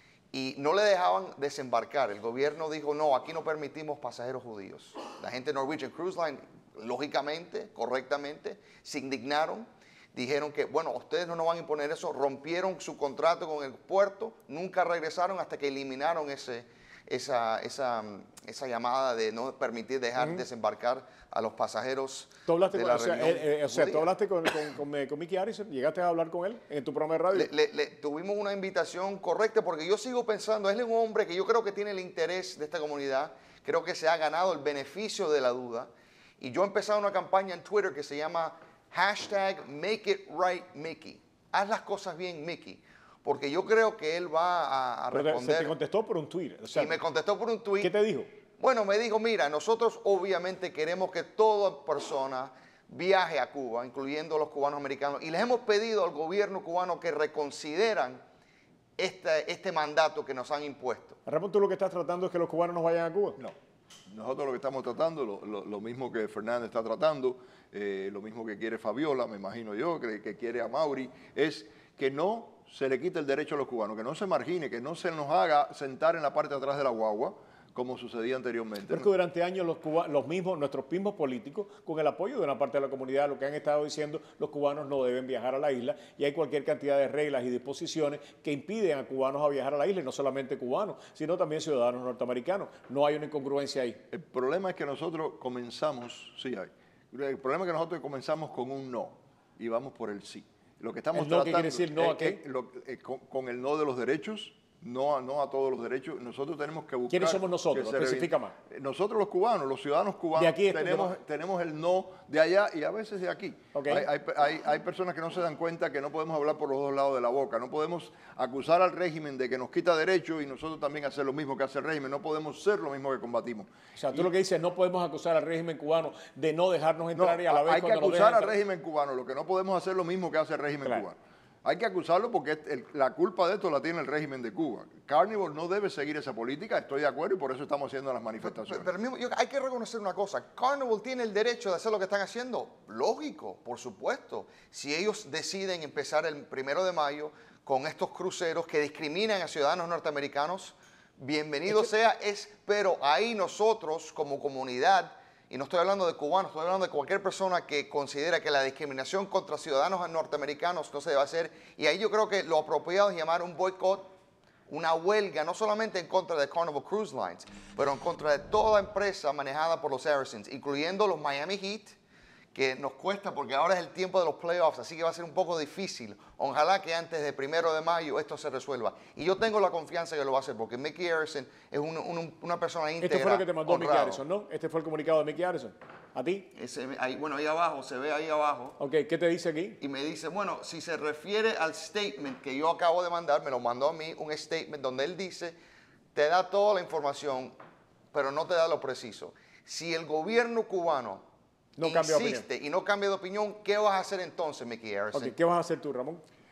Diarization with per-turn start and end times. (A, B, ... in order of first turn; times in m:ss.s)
0:00.3-0:24.1 A
0:22.4-0:27.5 B
0:27.3-0:45.7 A
0:45.1-0:47.0 B
0:46.7-0:47.9 A
0:47.8-0:48.3 B
0:48.6-0:58.2 A
0:59.0-1:01.2 A
1:01.2-1:03.4 B
1:04.1-1:19.1 C
1:18.9-1:34.0 B
1:34.1-2:04.2 C
1:41.1-1:42.4 B
1:47.1-1:48.5 B
1:50.3-1:51.2 B
1:53.7-1:54.0 B
2:04.0-2:08.5 B
2:07.2-2:18.9 C
2:18.5-2:44.1 A
2:44.7-2:52.0 A
2:52.5-3:04.2 A
3:03.0-3:06.4 B
3:06.5-3:08.8 A
3:08.8-3:09.8 B
3:09.8-3:15.6 A
3:16.1-3:17.6 A
3:18.1-3:21.2 A
3:21.8-3:22.4 B
3:21.8-3:25.4 A
3:25.1-3:26.2 B